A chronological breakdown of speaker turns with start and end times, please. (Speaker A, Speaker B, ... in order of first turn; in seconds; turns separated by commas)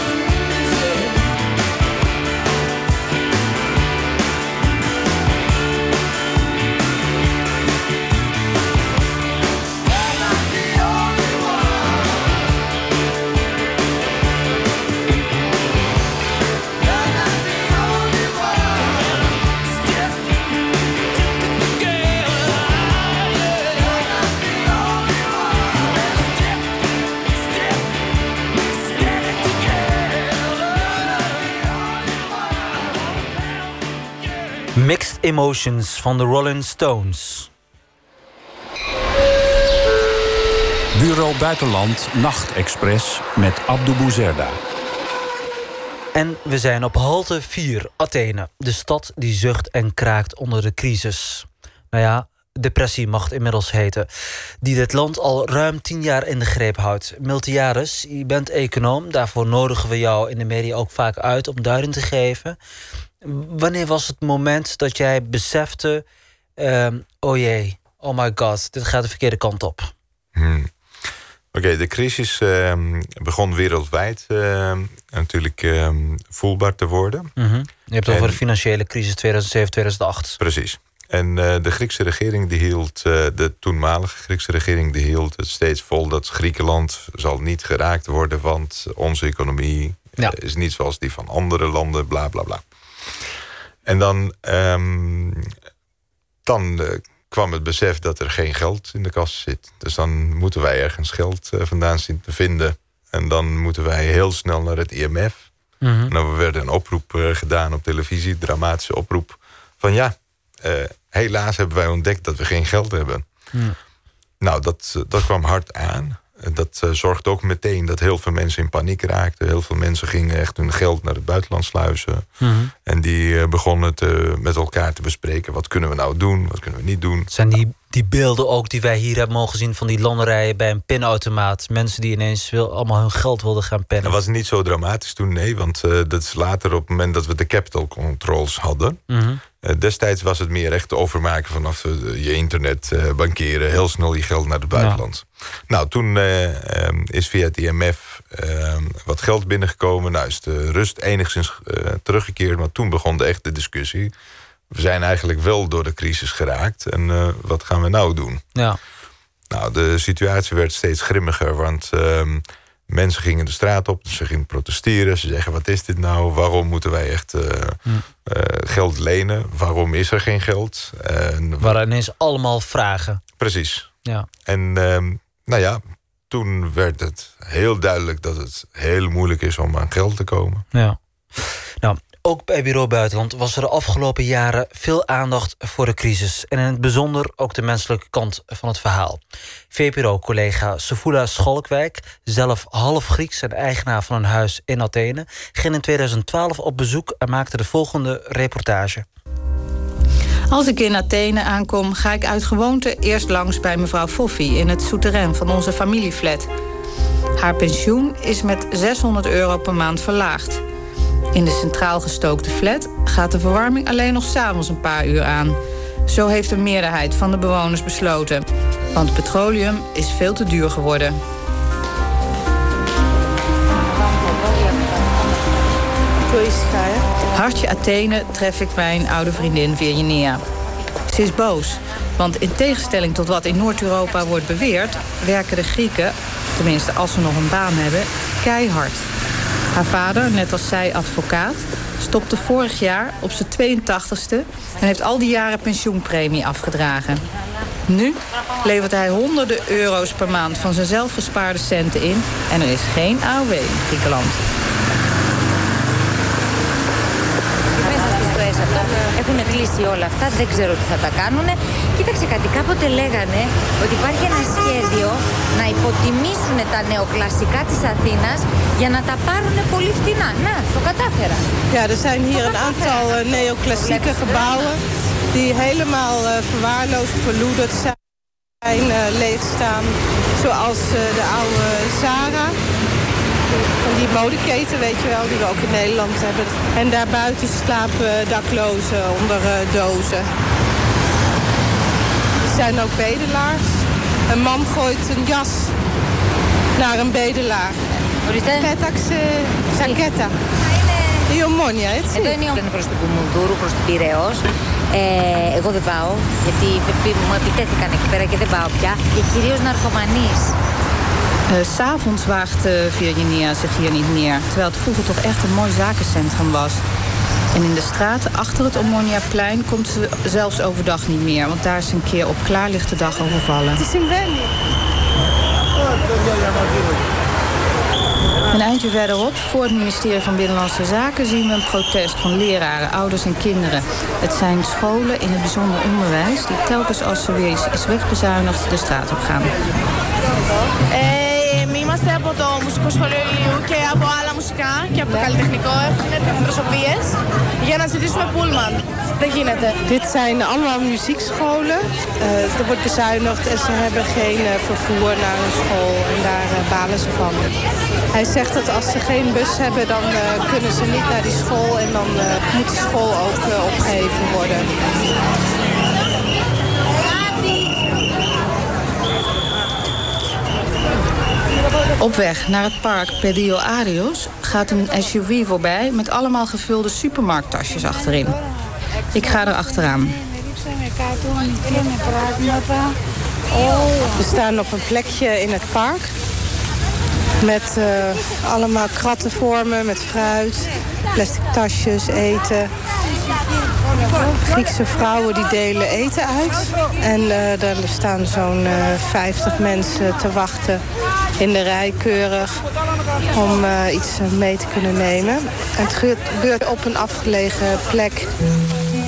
Speaker A: 34.8-37.5, Speaker B: 41.0-44.6, Speaker A: 46.1-54.1, Speaker A: 54.6-62.6, Speaker A: 63.2-66.0, Speaker A: 66.6-69.9, Speaker C: 70.3-70.7, Speaker C: 71.5-77.3, Speaker A: 77.4-80.4, Speaker C: 78.1-78.4, Speaker C: 80.4-92.6, Speaker C: 93.8-95.5, Speaker C: 96.5-105.5, Speaker A: 105.8-106.1, Speaker C: 106.1-113.2, Speaker C: 114.4-122.3, Speaker A: 122.4-122.7, Speaker C: 122.8-127.3, Speaker A: 127.3-134.2, Speaker C: 134.0-139.0, Speaker A: 139.1-139.4, Speaker C: 139.6-154.1, Speaker A: 144.8-145.0, Speaker C: 154.7-158.4, Speaker C: 159.5-171.8, Speaker A: 171.6-173.2, Speaker C: 173.4-173.9, Speaker C: 174.4-180.6, Speaker A: 180.7-189.2, Speaker A: 189.7-199.1, Speaker D: 200.5-206.5, Speaker D: 207.4-210.6, Speaker D: 211.3-221.2, Speaker E: 224.0-225.0, Speaker F: 226.3-227.1, Speaker D: 227.3-230.4, Speaker D: 231.1-239.1, Speaker D: 239.7-247.2, Speaker D: 247.9-254.5, Speaker E: 257.8-271.5, Speaker F: 271.7-274.8, Speaker E: 272.3-274.8, Speaker F: 275.3-278.0, Speaker F: 278.6-282.5, Speaker F: 283.8-290.3, Speaker F: 292.5-293.6, Speaker F: 294.3-295.8, Speaker F: 296.8-297.8, Speaker E: 298.3-298.8, Speaker F: 298.6-300.3, Speaker F: 301.3-302.4, Speaker E: 302.1-310.6, Speaker D: 311.5-316.8, Speaker D: 317.5-323.9, Speaker F: 323.8-324.5, Speaker D: 328.5-339.6, Speaker G: 340.9-349.8, Speaker F: 349.9-357.5, Speaker F: 358.1-364.7, Speaker D: 372.0-378.4, Speaker D: 379.1-380.2, Speaker F: 382.0-382.4, Speaker F: 384.1-386.1, Speaker F: 387.4-392.7, Speaker F: 394.5-400.8, Speaker F: 401.4-402.6, Speaker F: 403.3-408.3